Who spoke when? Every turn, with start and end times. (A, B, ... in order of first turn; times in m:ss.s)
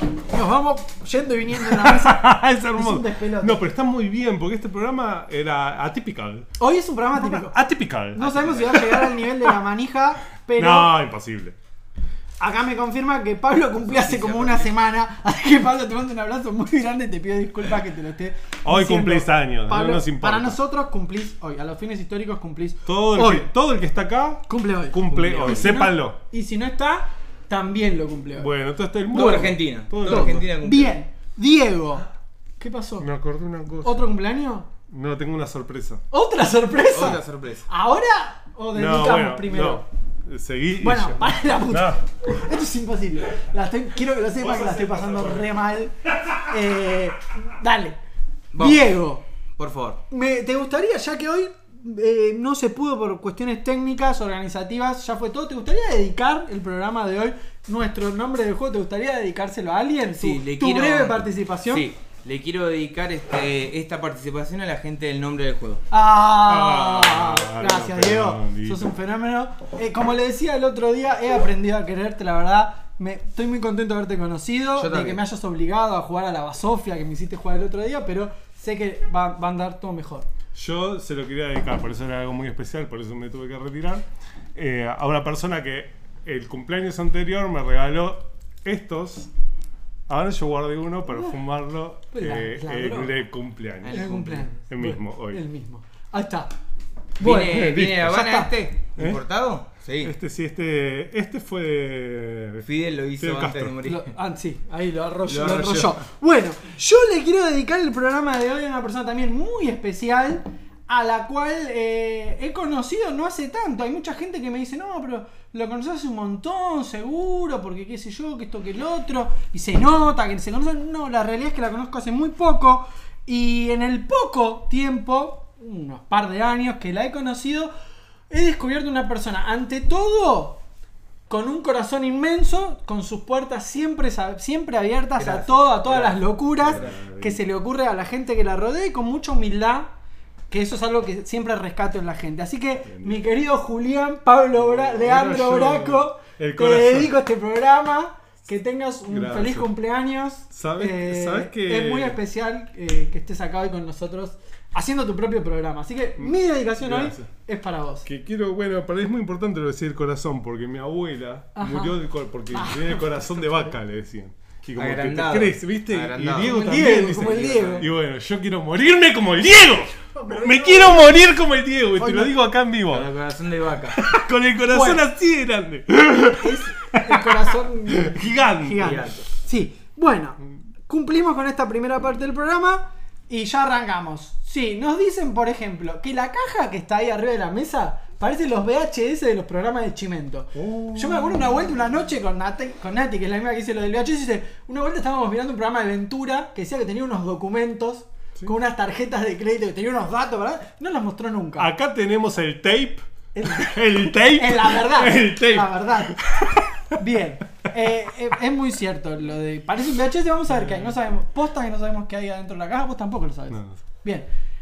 0:00.3-0:03.6 A
0:01.5-0:06.5 B
0:06.6-0:07.6 A
0:07.1-0:09.5 B
0:08.1-0:10.9 A
0:10.6-0:11.6 B
0:12.4-0:23.5 A
0:13.8-0:14.7 C
0:18.6-0:20.6 B
0:22.8-0:26.2 B
0:24.5-0:28.5 A
0:25.3-0:25.8 C
0:28.4-0:30.5 B
0:29.1-0:32.0 A
0:29.1-0:31.0 C
0:32.6-0:33.1 A
0:33.0-0:34.0 B
0:33.8-0:34.7 A
0:34.9-0:36.0 B
0:36.1-0:39.8 A
0:36.9-0:37.6 C
0:38.7-0:42.0 B
0:40.8-0:45.9 A
0:44.4-0:45.5 B
0:46.5-0:48.0 A
0:48.5-0:48.9 C
0:48.6-0:49.2 A
0:49.6-0:50.0 C
0:50.1-1:01.8 A
1:00.1-1:05.8 C
1:05.9-1:20.3 A
1:06.4-1:08.9 B
1:14.8-1:15.2 C
1:20.5-1:29.3 B
1:30.1-1:34.1 B
1:31.1-1:31.4 A
1:32.1-1:33.2 A
1:33.8-1:34.5 C
1:33.9-1:36.5 A
1:34.7-1:35.4 B
1:37.2-1:38.5 A
1:37.2-1:40.1 C
1:37.4-1:38.2 B
1:39.0-1:39.2 B
1:40.0-1:42.7 B
1:42.6-1:44.1 C
1:43.2-1:43.8 B
1:43.8-2:07.7 A
1:45.3-1:45.9 C
2:08.3-2:10.6 A
2:11.3-2:19.9 A
2:15.2-2:17.0 C
2:16.6-2:17.4 B
2:20.5-2:38.1 A
2:22.8-2:23.2 B
2:24.5-2:27.1 B
2:29.1-2:29.7 B
2:30.5-2:32.2 B
2:36.2-2:37.3 B
2:38.0-2:53.1 B
2:41.5-2:43.6 A
2:44.8-2:47.8 C
2:46.4-2:47.9 A
2:50.1-2:51.2 A
2:52.0-2:52.3 A
2:52.9-2:54.0 C
2:54.0-2:59.0 B
2:54.7-2:55.0 A
2:56.4-3:21.7 A
2:58.8-2:59.2 C
3:10.5-3:11.5 B
3:21.6-3:27.0 B
3:23.3-3:26.2 A
3:26.9-3:34.3 A
3:30.6-3:30.8 B
3:33.5-3:33.8 B